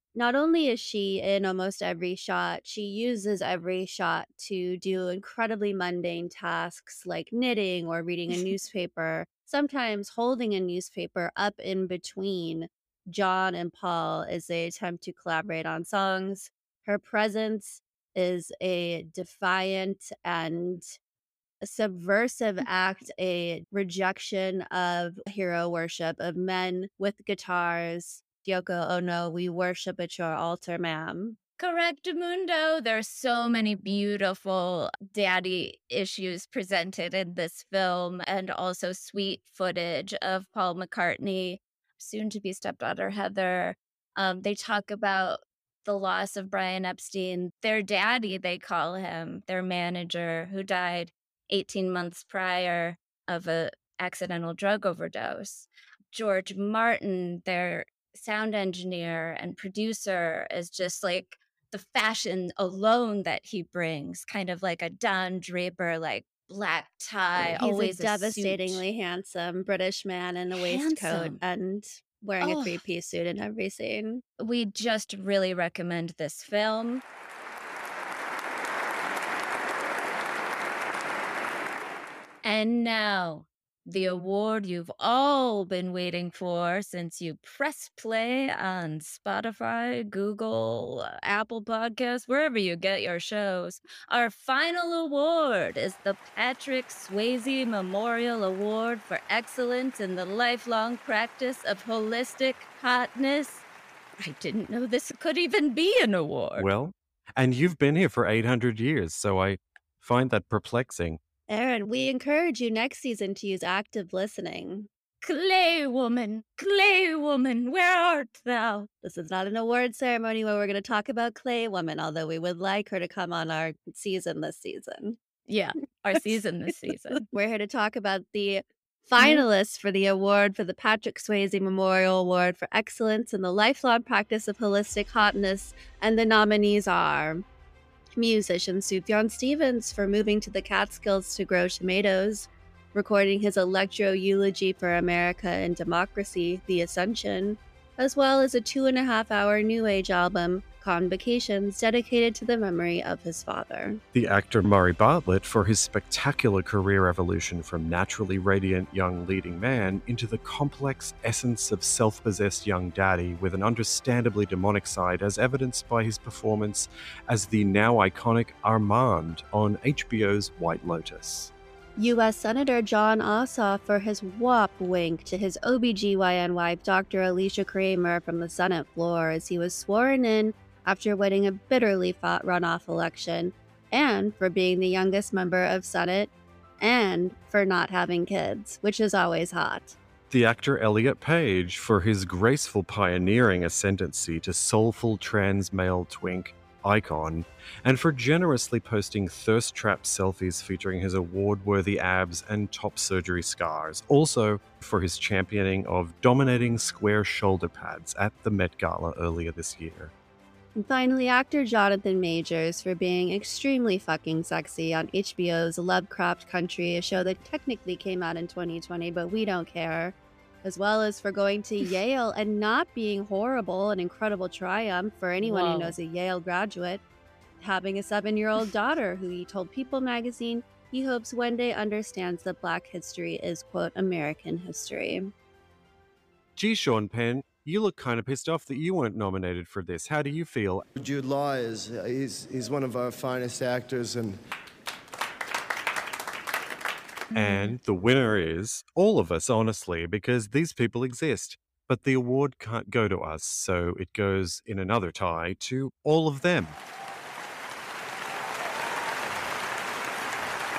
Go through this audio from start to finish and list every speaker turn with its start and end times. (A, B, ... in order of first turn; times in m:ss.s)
0:00.1-0:21.0 A
0:21.6-0:31.4 A
0:31.6-1:08.8 B
1:07.4-1:14.2 A
1:10.5-1:11.4 B
1:12.4-1:12.8 B
1:14.4-1:17.0 B
1:22.4-1:43.6 B
1:44.2-1:46.7 B
1:46.6-1:51.2 C
1:51.5-1:54.9 A
1:55.2-1:58.9 B
1:59.0-2:05.2 A
2:05.5-2:07.3 B
2:07.1-2:17.4 A
2:09.2-2:09.4 B
2:18.2-2:34.0 A
2:34.1-2:51.5 C
2:52.0-3:10.0 A
3:10.3-3:30.1 C
3:30.8-3:47.0 A
3:45.4-3:46.0 B
3:47.6-3:55.3 A
3:56.6-4:00.8 C
4:01.0-4:04.4 D
4:07.3-4:16.8 C
4:07.4-4:07.7 B